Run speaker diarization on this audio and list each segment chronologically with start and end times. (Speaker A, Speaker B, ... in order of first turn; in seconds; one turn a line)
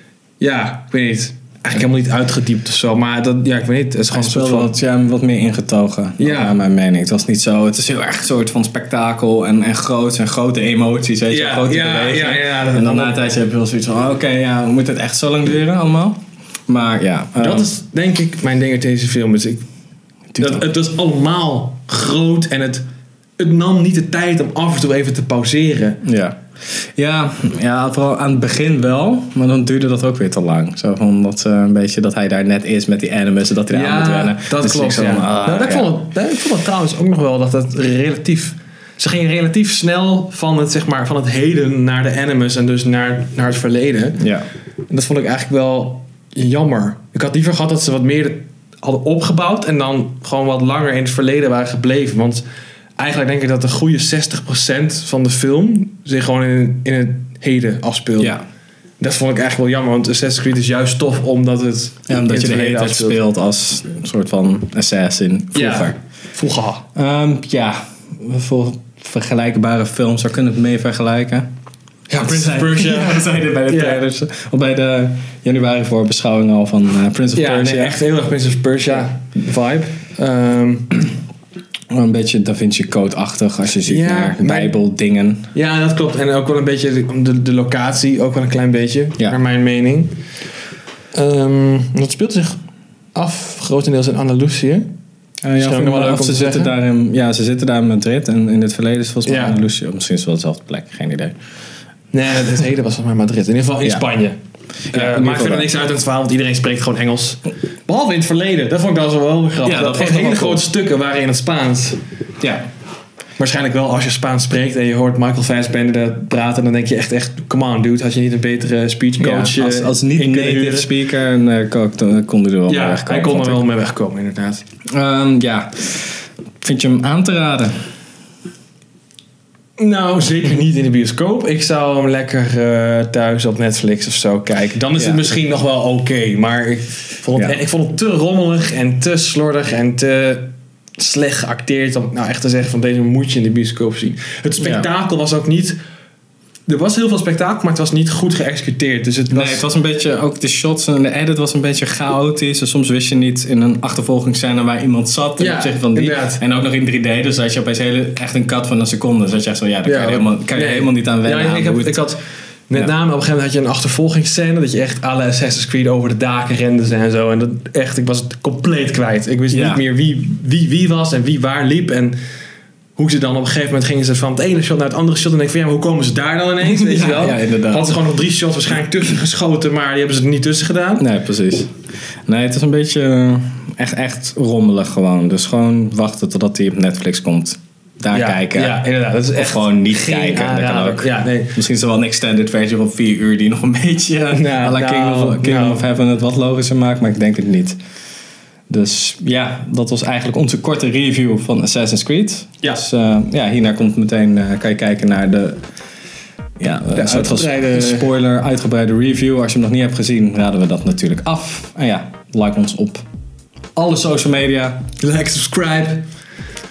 Speaker A: 0.4-4.7
Speaker B: 4.1-17.7
Speaker A: 6.2-6.5
Speaker A: 11.3-13.2
Speaker A: 17.4-19.6
Speaker B: 20.3-20.6
Speaker A: 20.4-22.9
Speaker A: 23.4-26.0
Speaker B: 26.0-35.9
Speaker A: 33.7-44.2
Speaker B: 44.2-44.5
Speaker A: 44.9-52.4
Speaker A: 53.0-58.3
Speaker A: 59.0-63.2
Speaker B: 62.1-66.0
Speaker A: 65.5-66.8
Speaker B: 66.9-71.5
Speaker A: 72.1-74.0
Speaker B: 72.2-78.0
Speaker A: 77.3-80.9
Speaker B: 81.9-85.5
Speaker A: 83.8-84.8
Speaker A: 85.5-90.2
Speaker A: 91.1-92.6
Speaker A: 93.1-94.8
Speaker B: 95.4-101.3
Speaker A: 95.6-96.7
Speaker A: 99.2-99.6
Speaker A: 102.1-104.4
Speaker B: 104.9-105.7
Speaker A: 104.9-112.0
Speaker B: 109.6-110.6
Speaker B: 112.4-112.6
Speaker A: 113.4-120.9
Speaker B: 119.2-123.6
Speaker A: 122.7-124.6
Speaker B: 124.9-127.7
Speaker A: 129.8-145.8
Speaker B: 134.9-135.2
Speaker B: 144.6-144.9
Speaker A: 146.7-149.6
Speaker B: 149.3-162.1
Speaker A: 155.4-156.4
Speaker A: 159.8-172.2
Speaker B: 169.5-169.8
Speaker A: 172.9-181.0
Speaker B: 176.6-177.9
Speaker B: 181.0-181.7
Speaker B: 182.2-197.8
Speaker A: 188.1-191.6
Speaker A: 194.3-195.8
Speaker B: 198.7-205.6
Speaker B: 206.6-213.0
Speaker A: 206.9-208.1
Speaker B: 213.8-214.9
Speaker A: 215.0-216.1